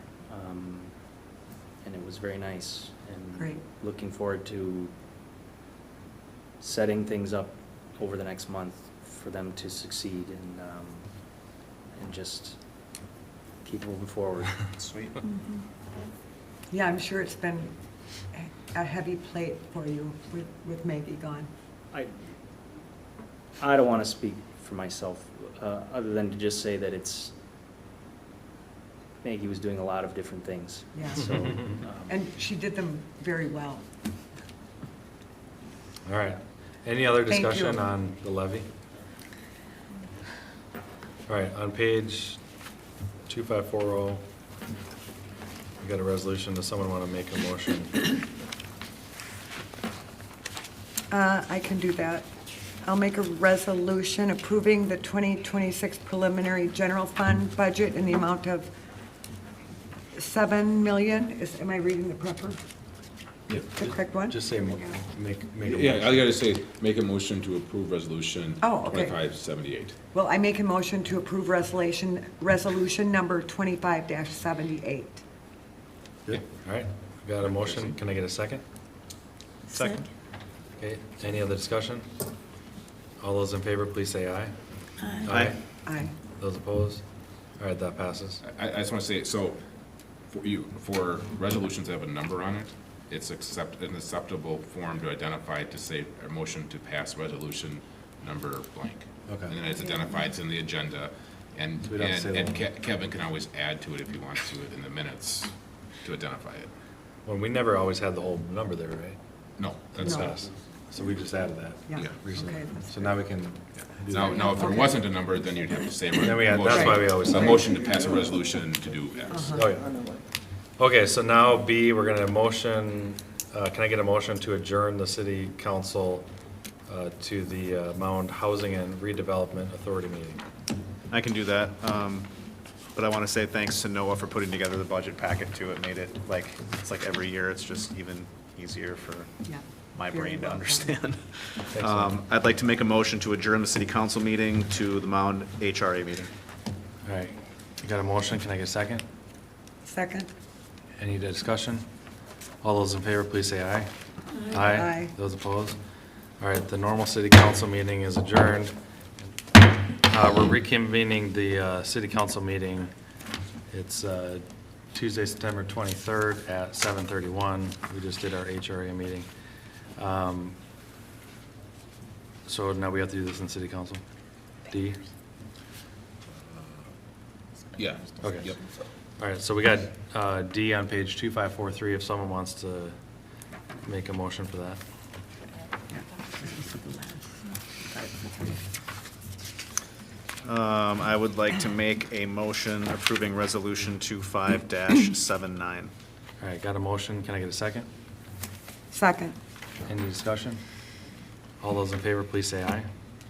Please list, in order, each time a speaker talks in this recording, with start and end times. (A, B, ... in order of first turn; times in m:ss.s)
0:00.3-0:00.9 A
0:01.8-0:04.9 A
0:03.4-0:03.6 B
0:06.6-0:11.4 A
0:11.9-0:12.6 A
0:13.6-0:14.7 A
0:16.7-0:17.7 B
0:18.3-0:21.5 B
0:23.6-0:27.3 A
0:29.2-0:32.0 A
0:30.9-0:31.4 B
0:32.0-0:33.8 B
0:36.0-0:38.7 C
0:37.3-0:37.8 B
0:41.3-0:42.4 C
0:43.3-0:44.2 C
0:45.8-0:48.1 C
0:51.1-0:52.2 B
0:52.8-0:58.7 B
1:00.1-1:02.6 B
1:03.7-1:04.4 B
1:04.3-1:06.2 C
1:05.6-1:10.0 D
1:08.6-1:09.2 B
1:10.1-1:15.2 B
1:16.3-1:18.6 C
1:19.7-1:20.1 E
1:20.8-1:22.0 C
1:23.2-1:24.5 C
1:25.2-1:25.6 C
1:25.2-1:25.6 E
1:25.8-1:26.1 B
1:26.4-1:27.0 C
1:27.6-1:28.4 C
1:28.4-1:29.6 D
1:30.3-1:45.5 D
1:39.3-1:39.6 C
1:41.9-1:42.6 C
1:46.0-1:46.7 D
1:47.2-1:49.2 C
1:49.6-1:50.3 D
1:49.9-1:54.8 C
1:51.9-1:53.0 B
1:54.1-1:59.5 D
1:54.4-1:54.8 B
1:56.2-1:57.7 C
1:56.6-1:57.2 B
1:59.3-1:59.7 B
1:59.5-1:59.9 C
2:00.8-2:06.3 C
2:06.9-2:10.4 C
2:11.1-2:12.3 E
2:12.9-2:19.3 E
2:19.4-2:20.9 B
2:19.9-2:26.3 E
2:21.7-2:22.2 C
2:27.0-2:29.0 C
2:29.8-2:30.3 B
2:31.0-2:31.8 C
2:32.6-2:33.9 C
2:34.4-2:35.1 B
2:34.5-2:35.8 C
2:36.4-2:38.7 C
2:40.0-2:42.9 C
2:43.7-2:49.3 C
2:50.0-2:50.6 C
2:52.4-2:54.0 C
2:54.7-2:55.0 C
2:57.7-2:58.6 D
2:58.2-2:58.6 C
2:59.2-3:02.9 C
3:03.8-3:04.8 C
3:05.9-3:07.0 B
3:10.4-3:15.9 E
3:16.4-3:17.9 C
3:18.9-3:19.4 B
3:19.8-3:20.6 C
3:21.6-3:22.9 C